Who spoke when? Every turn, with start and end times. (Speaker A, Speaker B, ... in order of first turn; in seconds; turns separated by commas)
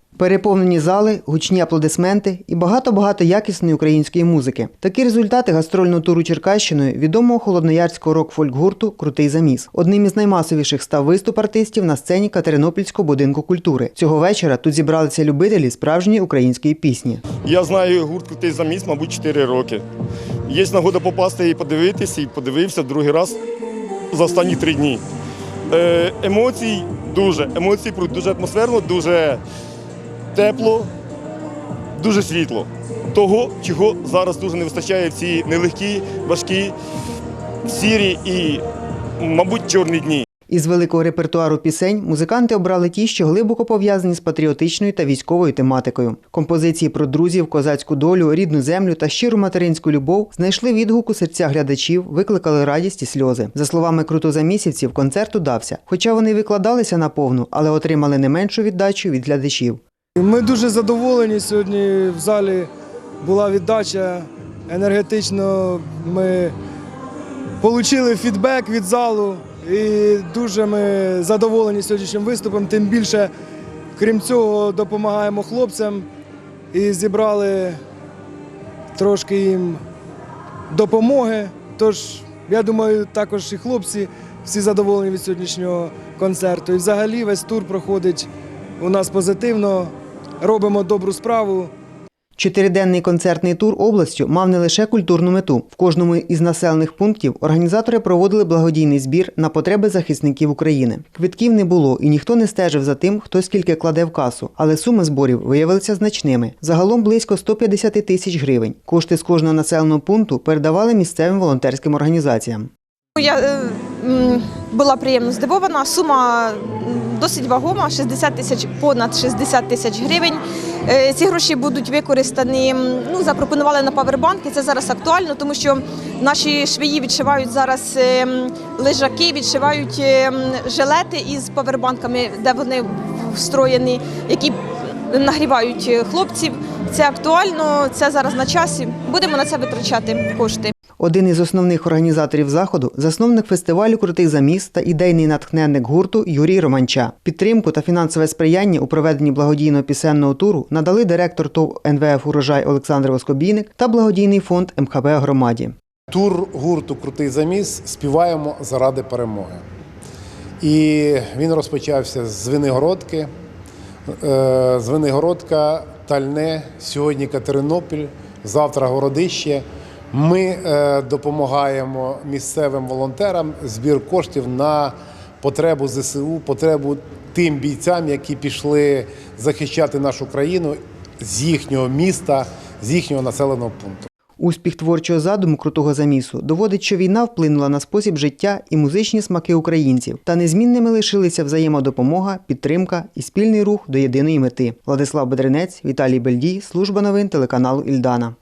Speaker A: 0.2-17.2, Speaker B: 17.4-19.8, Speaker B: 20.5-23.4, Speaker B: 24.1-25.0, Speaker B: 25.7-29.4, Speaker B: 30.4-30.9, Speaker B: 32.0-36.7, Speaker B: 37.7-38.6, Speaker B: 39.2-40.2, Speaker A: 40.5-59.8, Speaker C: 60.2-66.5, Speaker C: 67.6-73.3, Speaker C: 74.0-76.1, Speaker C: 76.7-77.8, Speaker C: 78.9-79.8, Speaker C: 80.7-91.7, Speaker A: 92.4-112.7, Speaker D: 113.2-134.6, Speaker D: 135.1-140.7, Speaker A: 141.0-155.7, Speaker E: 156.1-159.6, Speaker E: 160.6-163.3, Speaker E: 164.2-184.1, Speaker A: 184.4-198.3